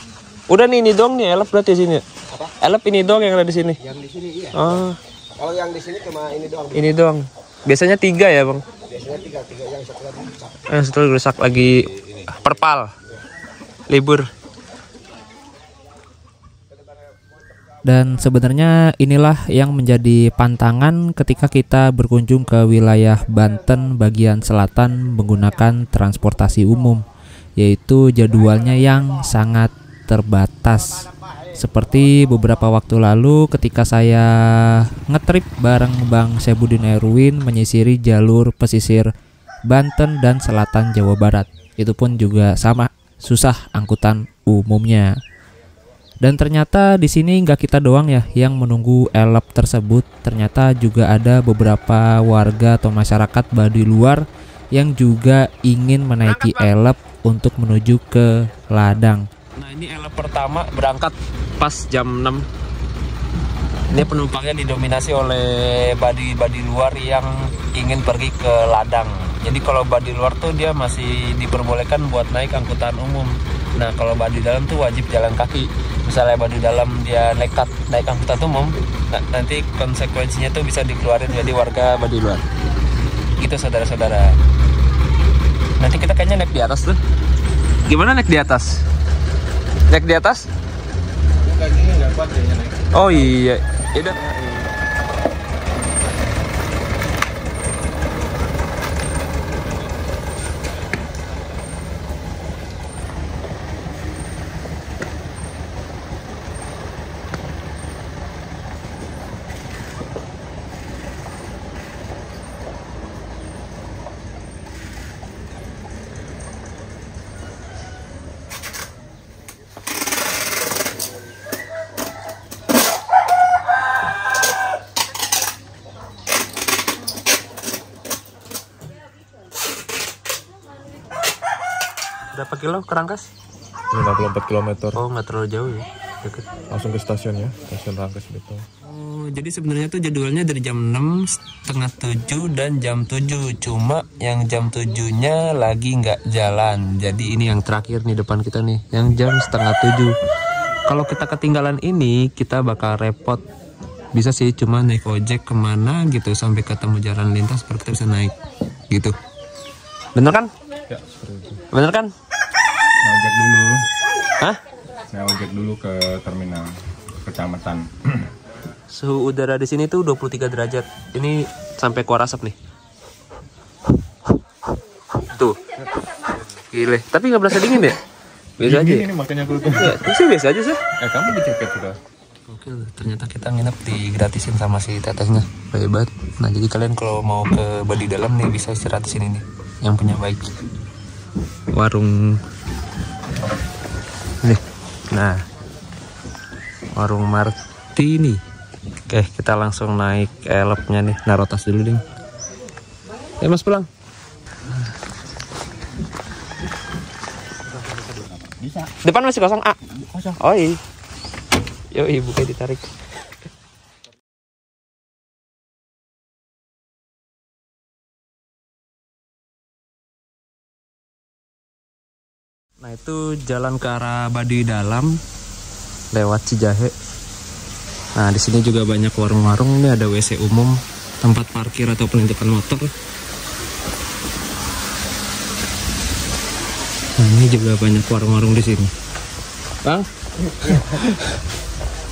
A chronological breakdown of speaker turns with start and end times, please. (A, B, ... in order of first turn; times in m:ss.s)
0:00.5-0:02.0 A
0:02.6-0:03.8 A
0:03.8-0:04.8 B
0:04.5-0:05.0 A
0:05.4-0:06.9 B
0:06.7-0:08.6 A
0:08.9-0:10.6 B
0:10.7-0:12.9 A
0:13.9-0:14.3 A
0:17.8-0:27.0 C
0:27.6-0:39.1 C
0:39.7-0:45.2 C
0:46.2-0:59.3 C
0:56.3-0:56.7 A
0:59.6-1:02.4 A
1:03.9-1:22.4 A
1:23.4-1:24.4 A
1:25.8-1:27.0 A
1:27.9-1:28.8 A
1:29.9-1:30.5 A
1:31.4-1:33.4 D
1:32.9-1:34.2 A
1:34.0-1:34.7 D
2:12.3-2:13.3 A
2:13.9-2:15.0 E
2:14.9-2:16.5 A
2:16.7-2:18.6 E
2:18.8-2:30.1 A
2:30.9-2:33.4 A
2:34.1-2:38.3 A
2:40.1-2:40.5 A
2:41.2-2:41.6 E
2:41.7-2:42.1 A
2:43.0-2:43.8 D
2:45.1-2:48.3 D
2:48.9-2:52.6 A
2:55.3-2:55.6 A
2:56.7-2:58.0 A
2:58.6-2:59.1 A
2:58.6-3:00.0 D
2:59.7-3:00.8 A
3:01.0-3:02.0 D
3:02.5-3:10.5 A
3:11.7-3:12.4 A
3:14.4-3:15.4 A
3:16.9-3:18.4 A
3:19.1-3:22.0 A
3:23.4-3:23.9 A
3:28.5-3:28.9 D
3:29.0-3:30.8 A
3:31.9-3:32.9 A
3:42.8-3:45.1 A
3:46.1-3:46.9 A
3:48.2-3:52.9 A
3:57.2-3:58.9 A
3:59.8-4:01.3 A